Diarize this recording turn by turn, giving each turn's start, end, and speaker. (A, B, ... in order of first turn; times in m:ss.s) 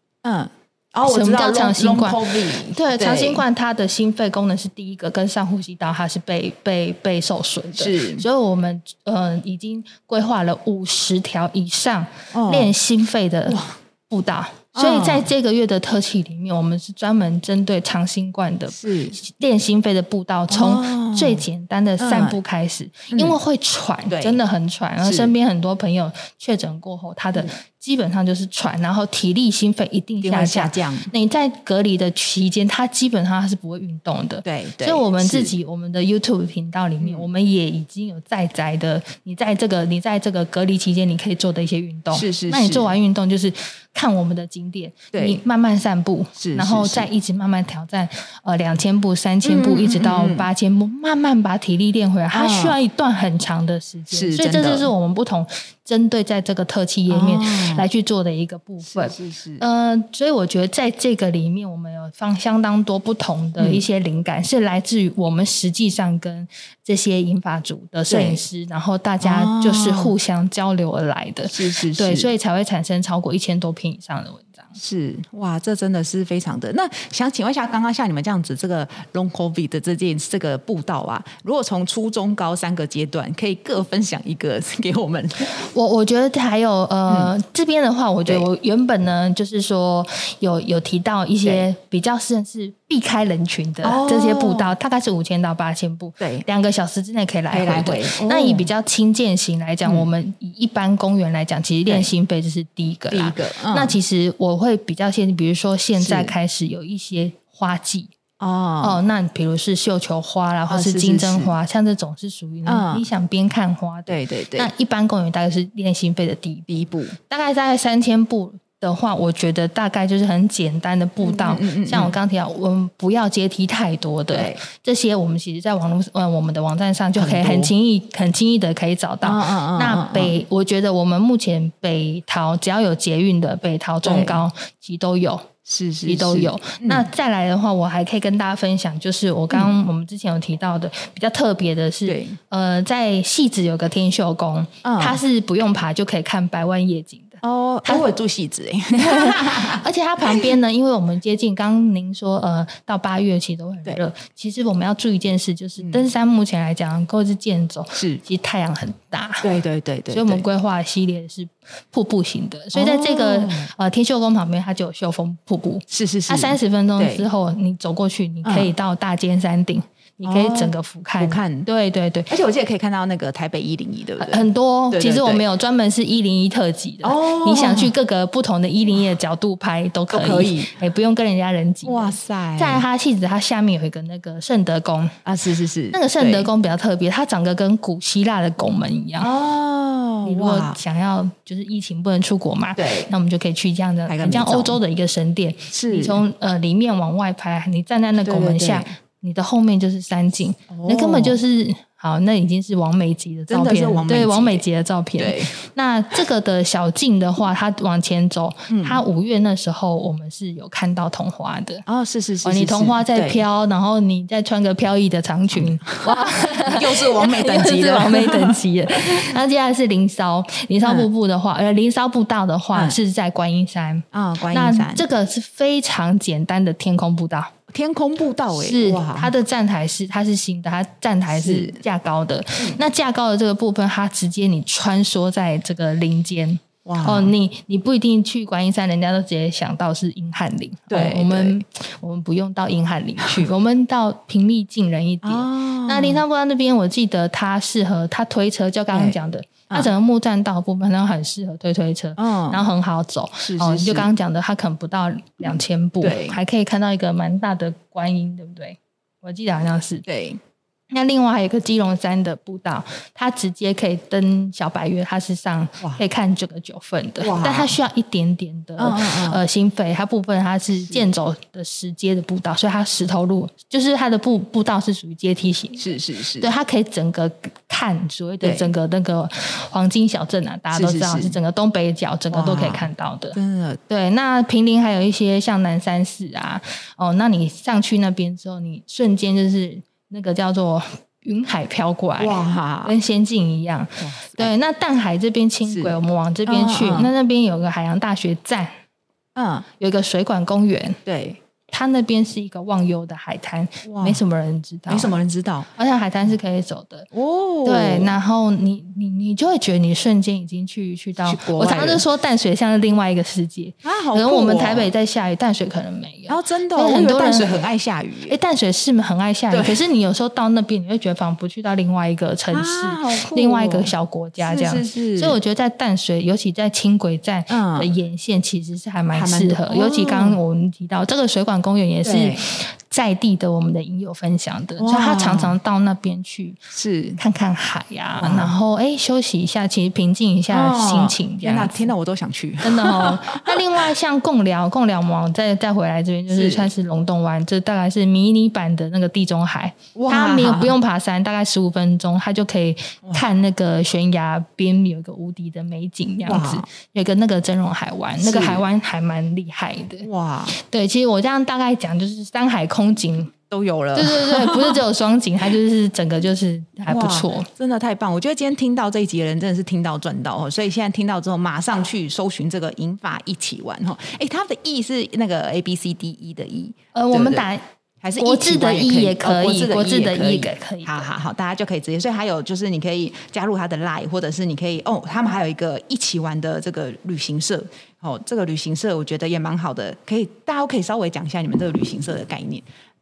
0:00.2-0:03.4 A
0:01.0-1:14.7 B
0:07.8-0:08.2 A
0:12.3-0:12.7 A
0:13.5-0:13.7 A
0:14.7-0:15.3 A
0:18.7-0:19.2 A
0:20.5-0:21.4 A
0:22.0-0:22.4 A
0:23.1-0:23.4 A
0:24.1-0:24.4 A
0:25.0-0:25.3 A
0:30.2-0:31.1 A
0:34.4-0:35.5 A
0:37.0-0:37.3 A
0:42.1-0:42.9 A
0:45.1-0:45.4 A
0:46.4-0:47.1 A
0:49.4-0:50.5 A
0:52.3-0:52.8 A
0:54.1-0:54.9 A
0:57.1-0:57.8 A
0:58.8-0:59.6 A
1:03.6-1:03.8 A
1:08.1-1:08.4 A
1:09.2-1:10.1 A
1:11.5-1:12.3 A
1:14.8-1:25.6 A
1:25.6-1:48.1 B
1:33.8-1:34.7 A
1:36.2-1:36.4 A
1:37.5-1:38.7 A
1:43.1-1:44.0 A
1:46.0-1:46.3 A
1:48.4-1:49.0 A
1:48.8-2:15.5 B
1:50.7-1:51.5 A
1:52.6-1:53.0 A
1:54.1-1:54.7 A
1:56.7-1:57.2 A
2:01.2-2:02.1 A
2:04.3-2:04.6 A
2:07.1-2:07.7 A
2:09.2-2:10.3 A
2:14.0-2:14.4 A
2:15.6-2:17.0 A
2:16.0-2:28.0 B
2:22.0-2:22.4 A
2:24.8-2:25.2 A
2:27.4-2:30.4 A
2:28.9-2:39.5 B
2:35.8-2:36.0 A
2:38.0-2:38.2 A
2:39.4-2:40.4 A
2:40.1-2:52.3 B
2:42.7-2:43.7 A
2:45.9-2:47.3 A
2:48.4-2:48.7 A
2:50.2-2:51.7 A
2:52.3-2:55.4 A
2:54.2-3:05.2 B
2:57.0-2:57.9 A
3:00.1-3:00.7 A
3:01.8-3:02.8 A
3:05.2-3:06.5 A
3:05.9-3:09.3 B
3:09.2-3:10.8 A
3:10.2-3:31.8 B
3:12.8-3:13.1 A
3:14.1-3:14.8 A
3:15.7-3:16.2 A
3:18.2-3:18.9 A
3:20.7-3:21.4 A
3:23.5-3:24.6 A
3:25.2-3:25.5 A
3:28.7-3:29.0 A
3:31.8-3:33.4 A
3:32.4-3:47.5 B
3:35.6-3:39.3 A
3:40.8-3:41.1 A
3:44.1-3:45.0 A
3:47.7-3:49.3 A
3:48.5-4:20.0 B
3:51.3-3:51.8 A
3:56.8-3:57.3 A
4:00.9-4:01.6 A
4:05.2-4:06.2 A
4:08.9-4:09.2 A
4:12.2-4:12.6 A
4:13.4-4:14.1 A
4:16.0-4:16.4 A
4:20.1-4:20.4 A
4:20.9-4:35.9 B
4:27.2-4:27.7 A
4:28.8-4:29.4 A
4:35.8-4:36.5 A
4:36.4-4:43.4 B
4:38.4-4:38.7 A
4:40.7-4:41.4 A
4:42.3-4:43.8 A
4:43.9-4:58.8 B
4:52.2-4:52.9 A
4:54.0-4:54.5 A
4:55.6-4:55.9 A
4:56.4-4:57.1 A
4:59.4-4:59.7 A
4:59.8-5:01.0 B
5:01.0-5:01.4 A
5:01.7-5:05.1 B
5:03.8-5:04.2 A
5:04.9-5:05.7 A
5:05.7-5:07.1 B
5:07.1-5:08.1 A
5:07.6-5:17.5 B
5:11.2-5:12.0 A
5:13.8-5:14.9 A
5:16.3-5:18.4 A
5:18.3-5:36.6 B
5:19.5-5:19.8 A
5:22.5-5:25.4 A
5:27.5-5:27.9 A
5:29.1-5:30.4 A
5:32.0-5:32.4 A
5:34.8-5:35.5 A
5:36.7-5:37.2 A
5:37.2-5:41.9 B
5:38.2-5:38.5 A
5:40.5-5:43.6 A
5:42.6-6:03.3 B
5:46.3-5:46.7 A
5:49.9-5:50.7 A
5:56.2-5:56.6 A
5:58.2-5:58.6 A
6:00.0-6:00.5 A
6:03.5-6:04.8 A
6:03.9-6:07.5 B
6:06.9-6:17.4 A
6:16.9-6:17.6 B
6:18.0-6:32.6 A
6:18.2-6:20.9 B